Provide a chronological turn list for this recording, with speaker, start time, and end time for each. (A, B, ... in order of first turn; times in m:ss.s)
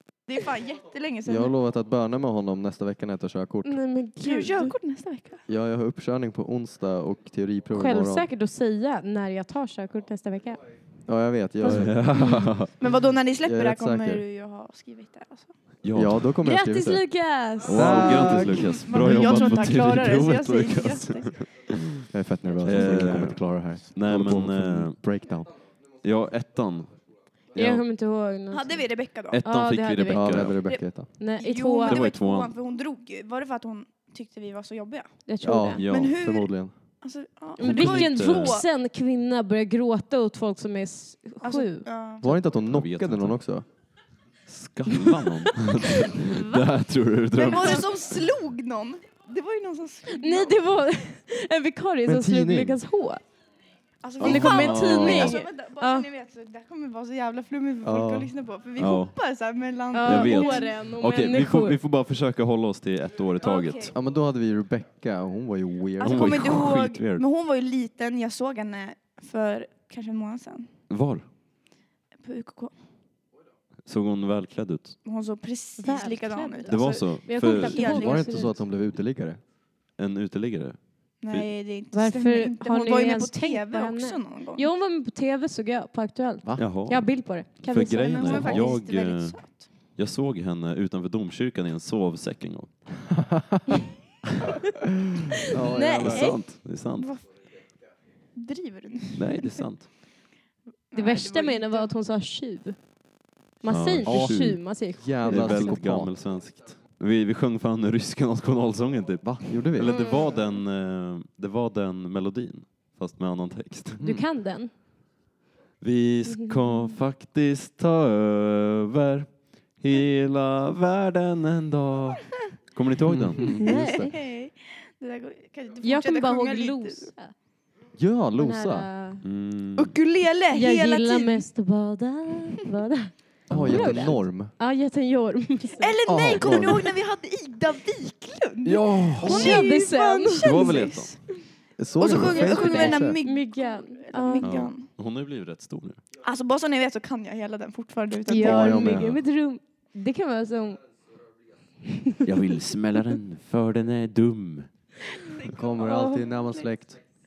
0:00.3-0:01.5 A
0:01.2-0:03.8 B
0:03.6-0:04.7 C
0:04.2-0:05.4 A
0:05.5-0:08.3 B
0:07.7-0:10.6 C
0:11.0-0:12.0 B
0:11.6-0:12.7 D
0:11.7-0:12.5 C
0:12.8-0:15.5 A
0:13.4-0:14.2 B
0:15.8-0:16.3 D
0:15.9-0:17.0 B
0:16.4-0:18.5 C
0:17.6-0:18.8 B
0:17.6-0:22.0 D
0:18.1-0:21.3 A
0:22.0-0:25.5 B
0:22.6-0:25.0 D
0:22.7-0:23.0 A
0:26.0-0:26.9 D
0:27.5-0:27.8 D
0:27.5-0:30.7 C
0:28.5-0:29.4 A
0:29.3-0:30.6 D
0:30.1-0:31.1 B
0:31.2-0:32.0 C
0:31.4-0:35.2 A
0:31.8-0:32.5 D
0:35.3-0:35.8 C
0:35.4-0:36.7 B
0:35.8-0:36.3 D
0:35.8-0:36.5 A
0:37.0-0:38.7 A
0:37.6-0:38.6 D
0:37.6-0:41.8 C
0:41.4-0:42.2 A
0:42.2-0:43.6 B
0:42.2-0:43.4 D
0:44.5-0:47.9 D
0:46.0-0:46.7 C
0:47.4-0:50.5 A
0:47.5-0:47.8 C
0:50.1-0:53.2 C
0:52.0-0:52.8 B
0:54.0-1:00.7 A
0:54.2-0:55.4 D
0:54.2-0:56.1 C
0:57.8-0:58.3 B
0:58.8-0:59.2 D
0:59.9-1:01.8 C
1:00.0-1:03.9 D
1:03.4-1:03.9 A
1:03.9-1:06.5 B
1:06.0-1:10.7 A
1:06.0-1:07.2 D
1:10.9-1:11.2 D
1:12.2-1:12.7 A
1:13.8-1:15.0 D
1:15.0-1:18.5 A
1:15.8-1:18.5 C
1:16.6-1:18.0 D
1:17.9-1:19.4 B
1:20.0-1:21.5 D
1:21.2-1:24.7 A
1:21.9-1:28.8 C
1:26.6-1:32.7 D
1:27.9-1:29.6 A
1:33.3-1:33.6 B
1:35.5-1:36.3 B
1:35.5-1:36.4 C
1:36.0-1:37.1 D
1:37.0-1:37.2 A
1:38.3-1:39.5 A
1:39.1-1:39.9 D
1:40.9-1:41.9 A
1:40.9-1:42.8 C
1:43.6-1:45.8 C
1:43.7-1:54.0 D
1:44.0-1:44.4 B
1:45.0-1:46.1 B
1:49.2-1:49.9 B
1:49.8-1:50.4 C
1:53.9-1:54.2 B
1:54.0-1:54.7 C
1:55.8-2:03.7 D
1:56.3-1:57.0 C
2:03.0-2:04.1 B
2:03.6-2:04.1 C
2:03.6-2:07.1 A
2:05.8-2:07.3 C
2:08.0-2:08.9 B
2:08.4-2:09.2 C
2:09.2-2:09.9 D
2:09.8-2:11.4 A
2:10.5-2:16.0 C
2:13.5-2:14.1 D
2:13.5-2:14.5 B
2:15.8-2:21.3 A
2:16.0-2:16.9 B
2:18.7-2:19.6 D
2:18.7-2:19.6 B
2:19.2-2:20.8 C
2:20.4-2:21.1 D
2:21.8-2:23.2 B
2:22.0-2:24.9 A
2:22.1-2:24.5 C
2:24.4-2:26.0 D
2:26.2-2:28.9 A
2:28.3-2:30.8 C
2:28.3-2:29.2 B
2:32.2-2:34.7 D
2:35.3-2:36.7 A
2:35.5-2:37.0 B